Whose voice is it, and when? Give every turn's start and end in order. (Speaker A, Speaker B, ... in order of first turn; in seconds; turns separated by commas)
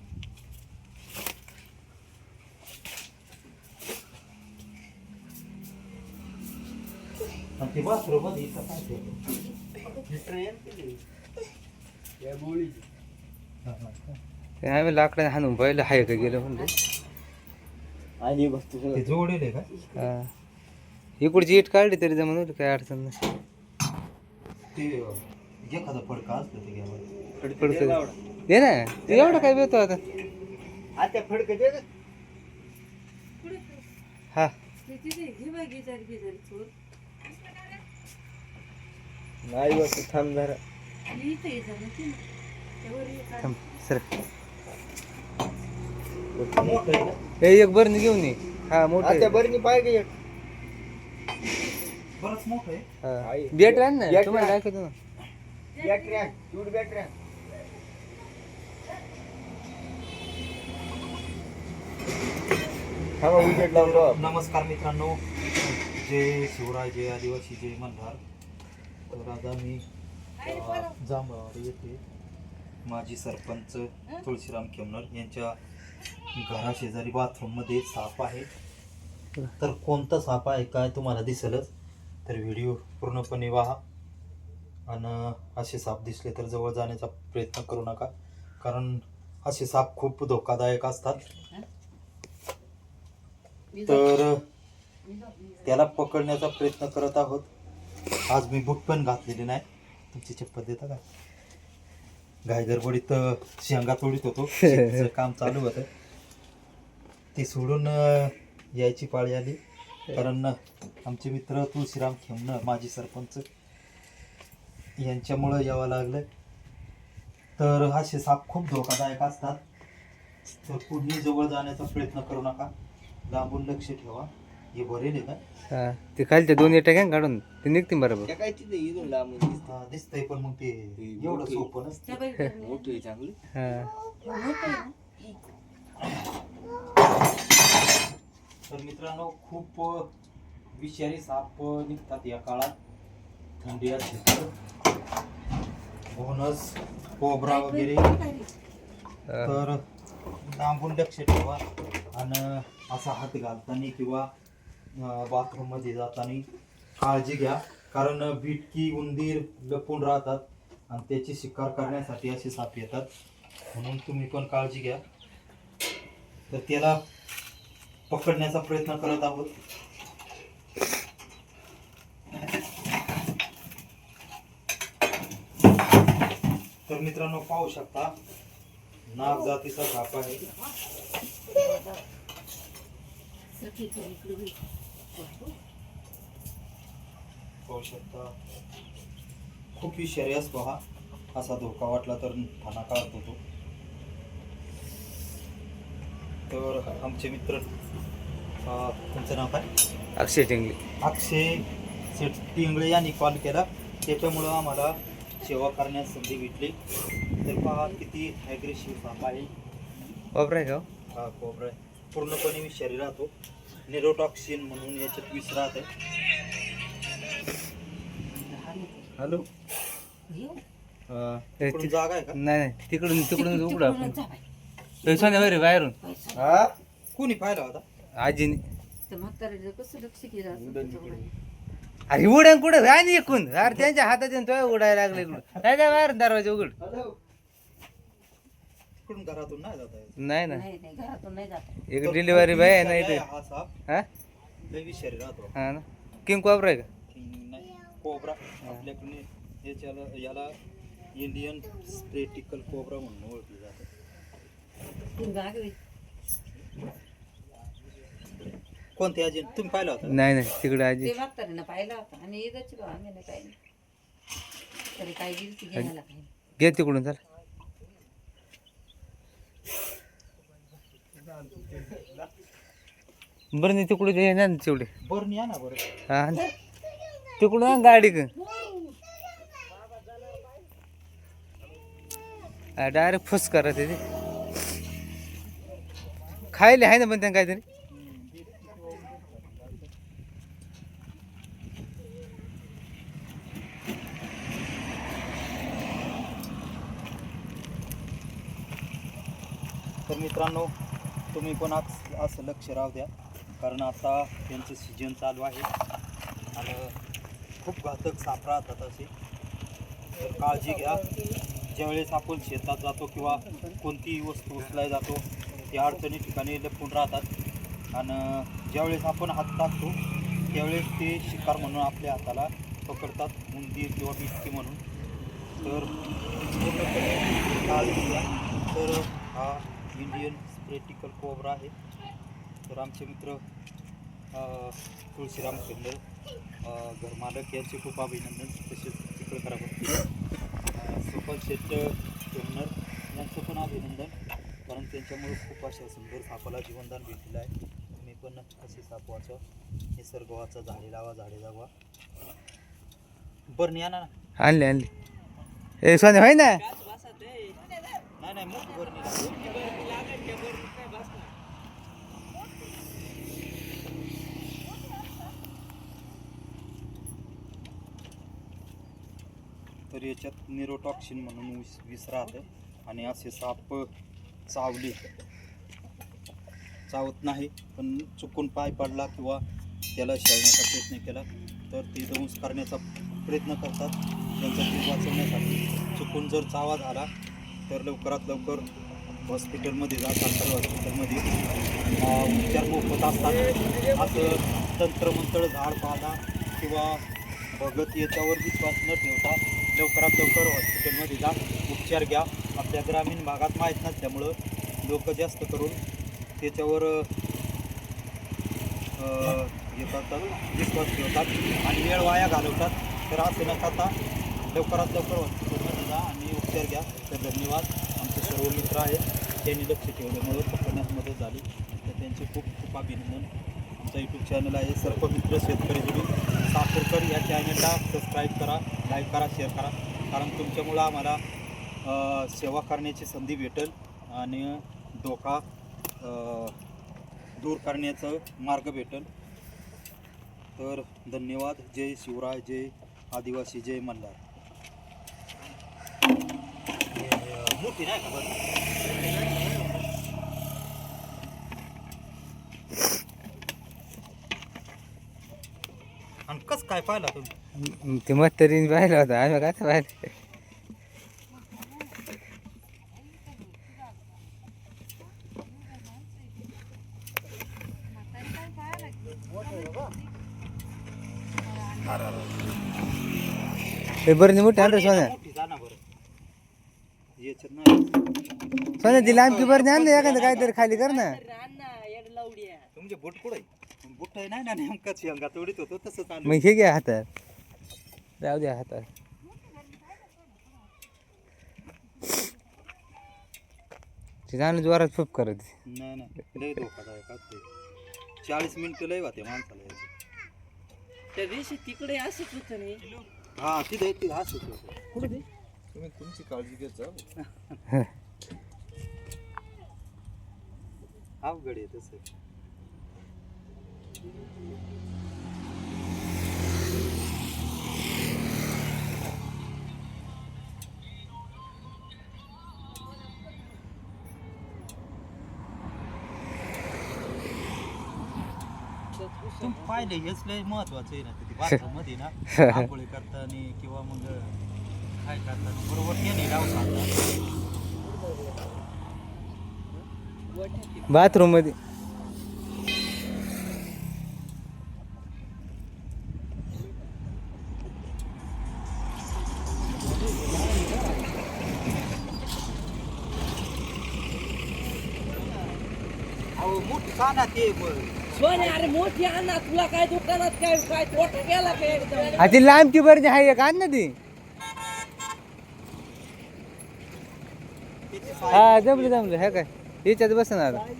Speaker A: 7.6-9.2, Speaker B: 10.0-11.0, Speaker B: 12.2-12.8, Speaker A: 13.6-14.2, Speaker C: 14.6-16.7, Speaker B: 18.2-19.1, Speaker A: 18.9-19.7, Speaker C: 19.9-20.3, Speaker C: 21.2-23.1, Speaker A: 24.7-27.0, Speaker C: 27.4-30.0, Speaker B: 27.6-28.2, Speaker B: 29.1-29.5, Speaker B: 30.9-31.8, Speaker D: 33.4-33.8, Speaker D: 34.8-36.7, Speaker B: 39.4-40.6, Speaker D: 41.1-42.2, Speaker D: 42.8-43.5, Speaker C: 43.4-44.0, Speaker B: 46.3-47.1, Speaker A: 46.6-47.2, Speaker C: 47.4-49.4, Speaker B: 49.0-50.1, Speaker A: 52.1-52.9, Speaker C: 53.0-54.9, Speaker B: 53.2-54.6, Speaker D: 55.8-56.3, Speaker B: 55.8-57.1, Speaker B: 63.2-64.2, Speaker A: 63.4-68.2, Speaker A: 69.1-69.8, Speaker A: 70.4-72.0, Speaker A: 72.8-75.6, Speaker A: 76.3-78.5, Speaker A: 79.6-81.7, Speaker A: 82.2-83.8, Speaker A: 84.8-91.2, Speaker D: 91.3-91.7, Speaker D: 93.7-94.1, Speaker A: 93.8-94.4, Speaker D: 95.1-95.5, Speaker A: 95.6-97.5, Speaker A: 98.3-101.0, Speaker A: 102.4-105.9, Speaker C: 104.6-104.9, Speaker A: 107.3-109.6, Speaker A: 110.1-113.5, Speaker A: 115.0-116.2, Speaker A: 117.6-119.6, Speaker A: 120.6-122.7, Speaker A: 123.3-125.4, Speaker C: 125.7-128.3, Speaker B: 128.2-129.7, Speaker A: 129.6-132.2, Speaker B: 131.0-131.7, Speaker D: 132.1-133.0, Speaker B: 132.6-133.4, Speaker C: 133.5-133.9, Speaker D: 134.2-135.4, Speaker A: 138.7-140.1, Speaker A: 140.7-142.7, Speaker A: 143.6-144.5, Speaker A: 146.1-148.1, Speaker D: 147.4-148.5, Speaker C: 149.3-149.6, Speaker A: 149.4-149.8, Speaker A: 150.4-154.3, Speaker A: 154.9-156.4, Speaker A: 157.0-163.1, Speaker A: 163.7-165.0, Speaker A: 166.5-167.0, Speaker A: 168.1-169.5, Speaker A: 176.9-178.1, Speaker A: 179.1-180.5, Speaker D: 181.5-182.0, Speaker D: 183.5-184.6, Speaker D: 185.1-185.6, Speaker A: 187.7-188.3, Speaker A: 189.7-190.8, Speaker A: 191.3-193.4, Speaker A: 196.5-197.7, Speaker A: 198.6-199.7, Speaker C: 200.2-200.8, Speaker A: 201.0-206.8, Speaker A: 207.4-209.5, Speaker C: 210.3-210.8, Speaker A: 211.1-213.3, Speaker A: 213.8-215.9, Speaker D: 218.3-219.1, Speaker B: 219.2-219.4, Speaker D: 220.3-220.6, Speaker B: 221.1-221.4, Speaker C: 221.6-224.2, Speaker A: 221.6-222.4, Speaker D: 223.3-224.4, Speaker C: 225.0-225.9, Speaker D: 225.0-226.6, Speaker B: 226.3-226.7, Speaker A: 227.1-227.8, Speaker C: 228.2-228.6, Speaker D: 229.1-231.3, Speaker B: 230.5-231.3, Speaker C: 232.1-236.7, Speaker B: 236.8-237.1, Speaker A: 239.0-240.2, Speaker C: 240.2-240.6, Speaker D: 240.5-241.8, Speaker C: 241.9-243.2, Speaker A: 242.0-243.7, Speaker A: 244.7-245.5, Speaker C: 245.6-246.9, Speaker A: 247.1-250.6, Speaker A: 251.1-253.9, Speaker D: 255.1-255.8, Speaker A: 258.9-260.2, Speaker C: 260.0-261.1, Speaker D: 261.0-263.6, Speaker D: 264.9-266.3, Speaker C: 266.6-267.2, Speaker C: 273.5-274.9, Speaker A: 275.0-275.8, Speaker C: 276.1-276.5, Speaker C: 277.4-278.3, Speaker C: 282.8-284.0, Speaker C: 286.5-287.6, Speaker B: 288.2-289.8, Speaker A: 300.1-300.7, Speaker A: 301.3-305.7, Speaker A: 306.5-306.9, Speaker A: 307.6-309.1, Speaker A: 310.1-311.0, Speaker D: 310.9-311.3, Speaker A: 311.7-317.3, Speaker A: 317.9-320.0, Speaker A: 320.5-324.8, Speaker A: 325.6-331.7, Speaker A: 332.7-333.4, Speaker A: 334.3-336.0, Speaker A: 336.6-340.0, Speaker A: 340.7-344.1, Speaker A: 344.7-349.4, Speaker A: 349.9-351.7, Speaker A: 353.5-354.1, Speaker C: 354.4-354.9, Speaker C: 355.8-356.6, Speaker A: 358.2-360.2, Speaker B: 360.2-361.1, Speaker A: 369.9-373.9, Speaker A: 374.5-375.0, Speaker A: 376.9-379.4, Speaker A: 379.9-387.1, Speaker A: 387.7-388.7, Speaker A: 389.2-391.3, Speaker A: 392.0-405.8, Speaker B: 393.4-394.0, Speaker A: 406.4-407.1, Speaker A: 409.0-431.2, Speaker A: 431.8-435.4, Speaker A: 436.0-436.6, Speaker A: 437.4-439.1, Speaker A: 440.6-444.2, Speaker A: 446.9-448.4, Speaker A: 456.2-457.4, Speaker C: 457.6-460.1, Speaker D: 468.2-469.9, Speaker C: 474.0-475.1, Speaker A: 474.5-475.8, Speaker A: 477.1-477.9, Speaker C: 478.8-481.2, Speaker A: 478.8-480.8, Speaker E: 481.4-482.6, Speaker A: 482.7-486.5, Speaker C: 486.2-487.1, Speaker C: 488.2-488.9, Speaker C: 494.3-495.5, Speaker A: 495.6-497.4, Speaker A: 498.2-499.9, Speaker E: 501.1-502.8, Speaker A: 503.0-504.8, Speaker B: 505.7-507.1, Speaker A: 511.2-512.0, Speaker A: 529.3-534.4, Speaker A: 535.0-536.9, Speaker B: 540.3-540.9, Speaker C: 540.9-541.5, Speaker A: 556.4-558.9, Speaker E: 559.0-561.0, Speaker B: 561.4-562.4, Speaker C: 562.1-564.0, Speaker A: 567.9-569.2, Speaker C: 568.3-570.6